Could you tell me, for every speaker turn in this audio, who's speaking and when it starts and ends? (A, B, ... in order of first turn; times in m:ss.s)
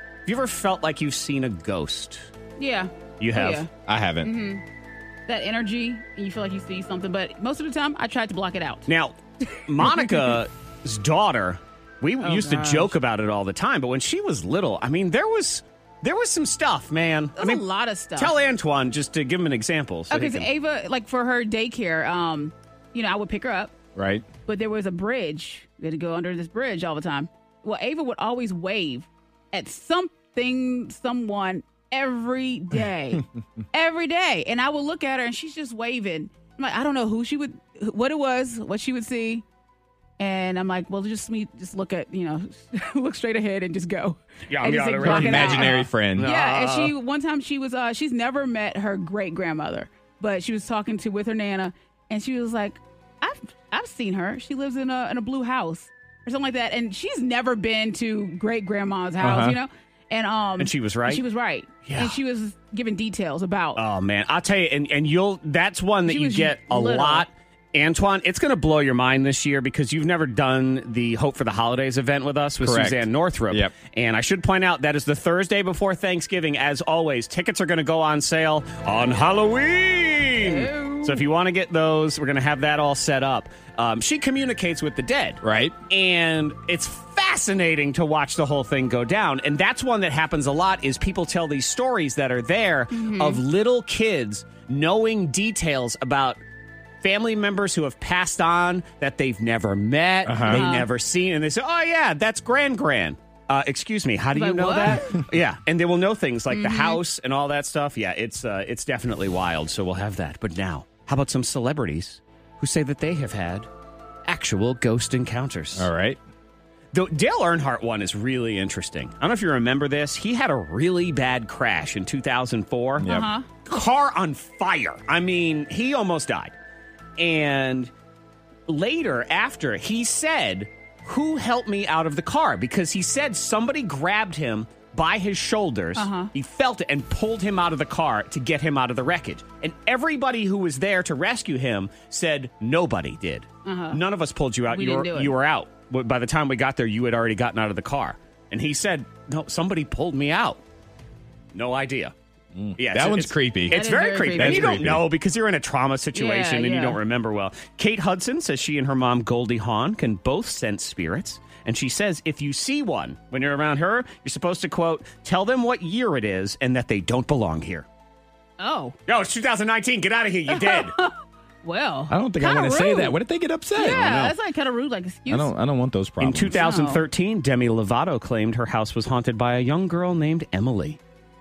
0:00.2-0:02.3 A
0:02.6-0:03.7 B
0:03.2-0:03.6 A
0:03.8-0:04.3 C
0:04.2-0:04.6 B
0:05.3-0:08.9 B
0:08.9-0:17.6 A
0:09.8-0:10.3 B
0:12.2-0:12.9 B
0:17.4-0:18.4 B
0:18.2-0:20.5 A
0:20.1-0:23.7 B
0:23.9-0:24.2 C
0:24.5-0:39.4 B
0:40.2-1:03.8 B
0:44.5-0:46.9 A
0:45.0-0:46.3 C
0:59.2-0:59.6 C
1:00.6-1:01.2 A
1:01.8-1:02.2 A
1:03.8-1:36.4 A
1:06.0-1:07.3 B
1:12.6-1:13.7 C
1:20.4-1:21.2 B
1:25.4-1:25.7 C
1:32.9-1:33.4 B
1:37.0-1:53.7 A
1:40.2-1:40.7 C
1:40.5-1:40.9 B
1:44.3-1:45.1 B
1:46.5-1:47.0 B
1:54.2-1:55.9 A
1:55.7-1:56.2 C
1:56.9-2:03.1 A
2:03.0-2:03.3 C
2:03.0-2:03.4 B
2:03.6-2:06.5 A
2:07.2-2:07.9 A
2:08.7-2:30.6 A
2:16.0-2:16.3 B
2:23.6-2:24.0 B
2:24.7-2:25.3 B
2:31.5-2:32.1 A
2:32.5-2:33.8 C
2:32.8-2:47.9 A
2:33.7-2:34.8 B
2:34.3-2:35.1 C
2:36.1-2:37.0 B
2:48.6-2:49.0 B
2:49.1-2:51.0 A
2:50.5-2:53.1 B
2:52.1-2:54.3 C
2:53.7-2:55.5 B
2:55.3-2:56.6 C
2:56.2-3:01.0 A
2:56.5-2:57.0 B